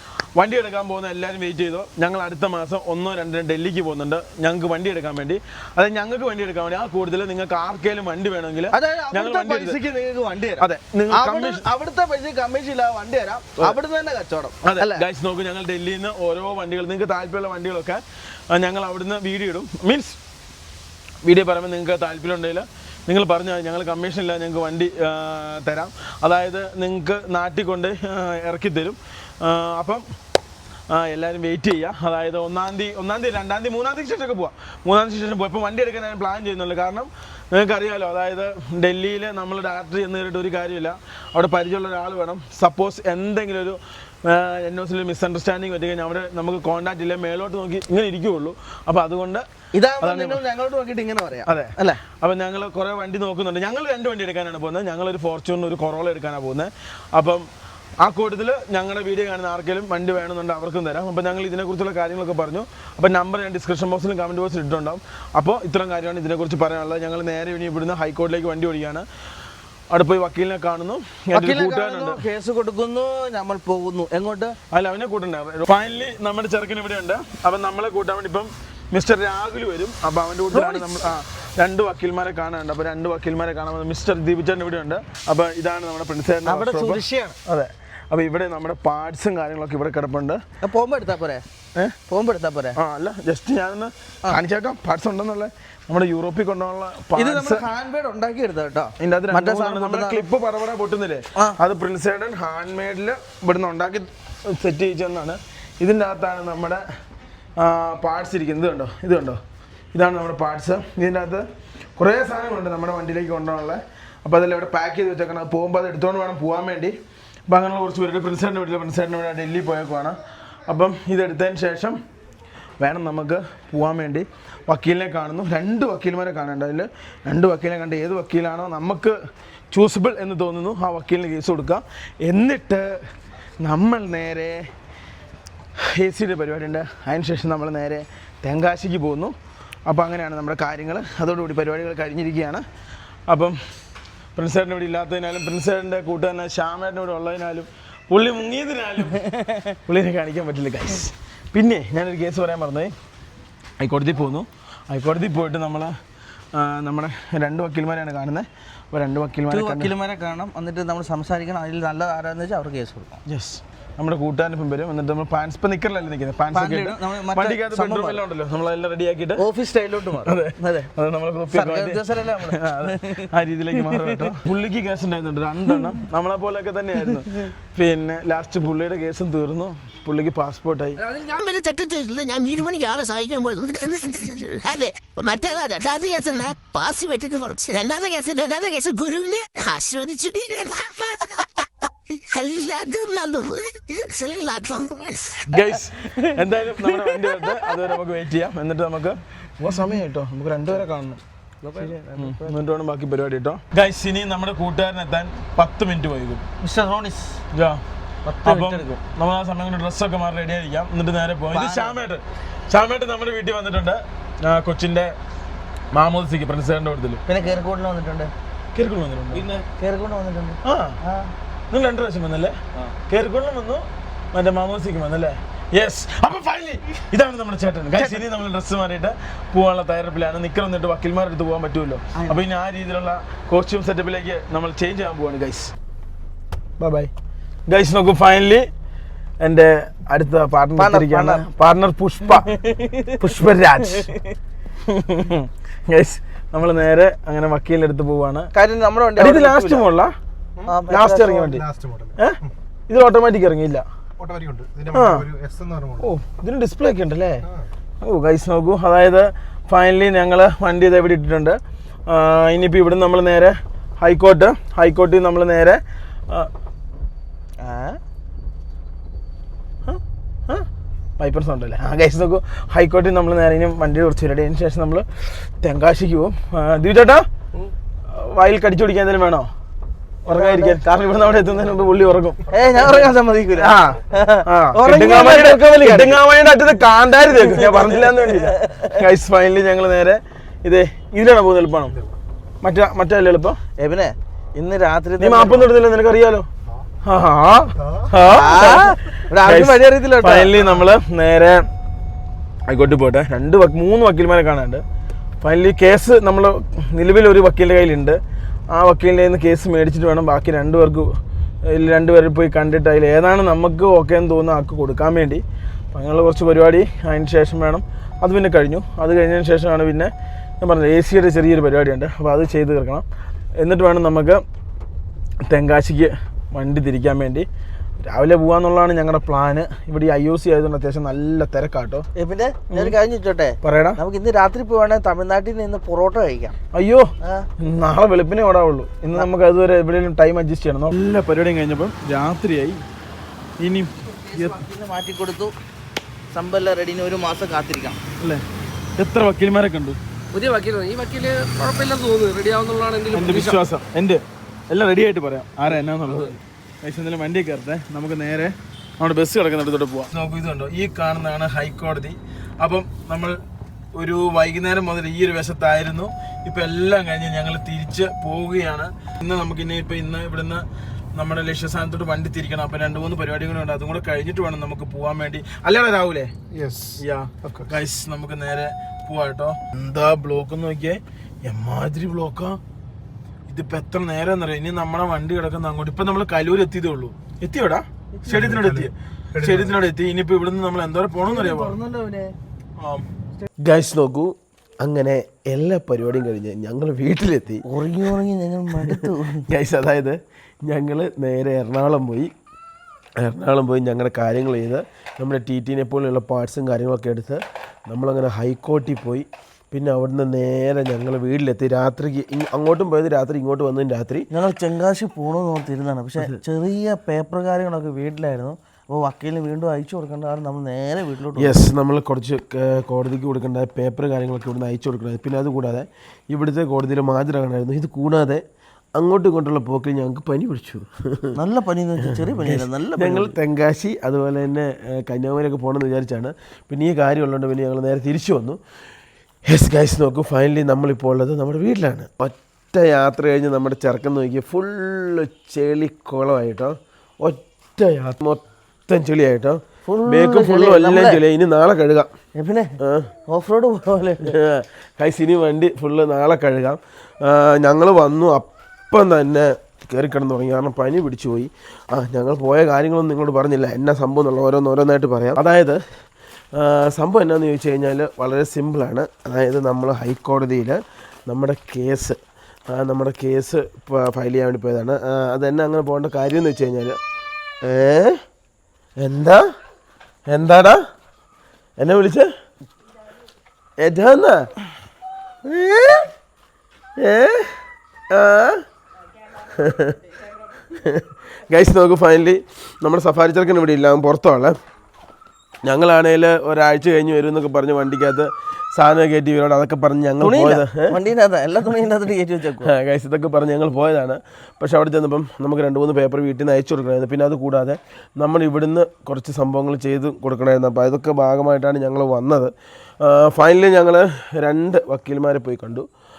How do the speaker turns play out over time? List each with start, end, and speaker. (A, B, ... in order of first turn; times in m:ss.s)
0:00.4-0:09.8 A
0:08.7-0:15.0 B
0:10.6-0:11.6 A
0:14.6-0:20.2 A
0:21.2-0:30.0 A
0:30.9-0:49.4 A
0:49.7-0:52.0 B
0:50.0-0:50.4 A
0:51.4-0:57.4 A
0:58.0-1:09.0 A
1:09.9-1:12.2 A
1:11.3-1:14.6 B
1:14.7-1:30.4 A
1:20.5-1:21.1 B
1:26.4-1:27.4 B
1:30.6-1:31.4 B
1:32.1-1:32.8 B
1:32.8-1:37.6 A
1:37.1-1:40.2 B
1:39.0-1:46.8 A
1:47.6-1:49.4 A
1:49.9-1:51.4 A
1:52.0-1:56.9 A
1:57.5-2:02.0 A
2:02.8-2:09.2 A
2:09.7-2:13.0 A
2:13.6-2:14.7 A
2:15.8-2:19.3 A
2:19.9-2:22.6 A
2:23.3-2:23.6 A
2:24.4-2:29.2 A
2:29.2-2:29.6 B
2:29.8-2:32.9 A
2:33.8-2:35.9 A
2:36.5-2:39.9 A
2:39.5-2:43.2 B
2:43.2-2:49.4 A
2:46.5-2:48.2 B
2:49.4-2:50.9 B
2:50.2-3:01.0 A
2:51.5-2:53.2 B
2:53.7-2:54.3 B
3:01.0-3:01.3 C
3:01.3-3:11.6 D
3:12.2-3:15.6 D
3:15.5-3:21.2 A
3:21.6-3:22.5 B
3:22.1-3:26.4 A
3:26.6-3:27.4 B
3:27.5-3:27.8 A
3:28.2-3:28.8 B
3:28.4-3:35.1 A
3:31.5-3:32.0 B
3:35.9-3:37.2 A
3:37.3-3:38.3 B
3:38.7-3:39.6 A
3:39.8-3:41.3 B
3:40.6-3:41.0 A
3:41.7-3:55.7 A
3:48.0-3:48.2 B
3:56.8-3:57.1 A
3:57.7-3:58.7 A
3:59.4-4:02.5 A
4:00.8-4:01.4 B
4:02.5-4:04.2 B
4:03.2-4:04.2 A
4:04.9-4:08.5 A
4:08.5-4:09.8 B
4:09.2-4:10.1 A
4:10.6-4:11.6 B
4:10.9-4:13.8 A
4:14.9-4:17.5 A
4:18.0-4:26.5 A
4:27.6-4:28.0 B
4:29.8-4:30.7 A
4:31.2-4:37.2 A
4:38.1-4:39.5 A
4:40.2-4:42.5 A
4:40.3-4:40.8 B
4:42.5-4:46.2 B
4:43.6-4:52.0 A
4:47.3-4:49.0 B
4:52.6-4:53.6 A
4:53.8-4:55.7 B
4:55.2-4:56.5 A
4:57.0-5:01.7 A
4:58.2-5:00.6 B
5:02.7-5:04.8 A
5:05.4-5:08.2 A
5:08.7-5:23.0 A
5:23.6-5:24.4 A
5:25.5-5:27.5 A
5:28.0-5:32.0 A
5:32.1-5:36.6 B
5:33.6-5:34.0 A
5:36.7-5:37.1 A
5:37.2-5:37.5 B
5:37.6-5:42.8 A
5:43.6-5:44.6 A
5:44.3-5:45.5 B
5:46.3-5:48.0 B
5:49.0-5:50.0 A
5:50.3-5:53.6 C
5:53.1-6:03.4 A
6:04.0-6:10.6 A
6:11.2-6:16.3 A
6:17.0-6:22.6 A
6:23.5-6:31.7 A
6:28.2-6:28.6 B
6:31.2-6:32.3 B
6:32.8-6:33.0 A
6:33.6-6:37.6 E
6:37.7-6:39.4 B
6:38.9-6:42.3 E
6:43.2-6:54.3 E
6:54.3-7:01.5 B
7:01.4-7:08.4 E
7:09.0-7:11.4 E
7:11.4-7:13.4 B
7:12.1-7:18.6 E
7:19.5-7:32.1 E
7:29.8-7:31.2 B
7:32.4-7:32.7 B
7:32.8-7:33.1 E
7:33.3-7:34.4 B
7:34.2-7:45.8 E
7:46.6-7:52.2 E
7:52.7-7:57.0 E
7:57.6-7:58.2 E
7:59.0-7:59.4 E
8:00.3-8:00.8 E
8:01.8-8:02.3 E
8:03.8-8:04.4 E
8:05.4-8:06.1 E
8:07.0-8:07.5 E
8:08.1-8:08.6 E
8:09.5-8:10.0 E
8:10.7-8:14.6 E
8:15.6-8:21.0 E
8:20.2-8:22.7 B
8:22.6-8:32.5 E
8:33.0-8:35.8 E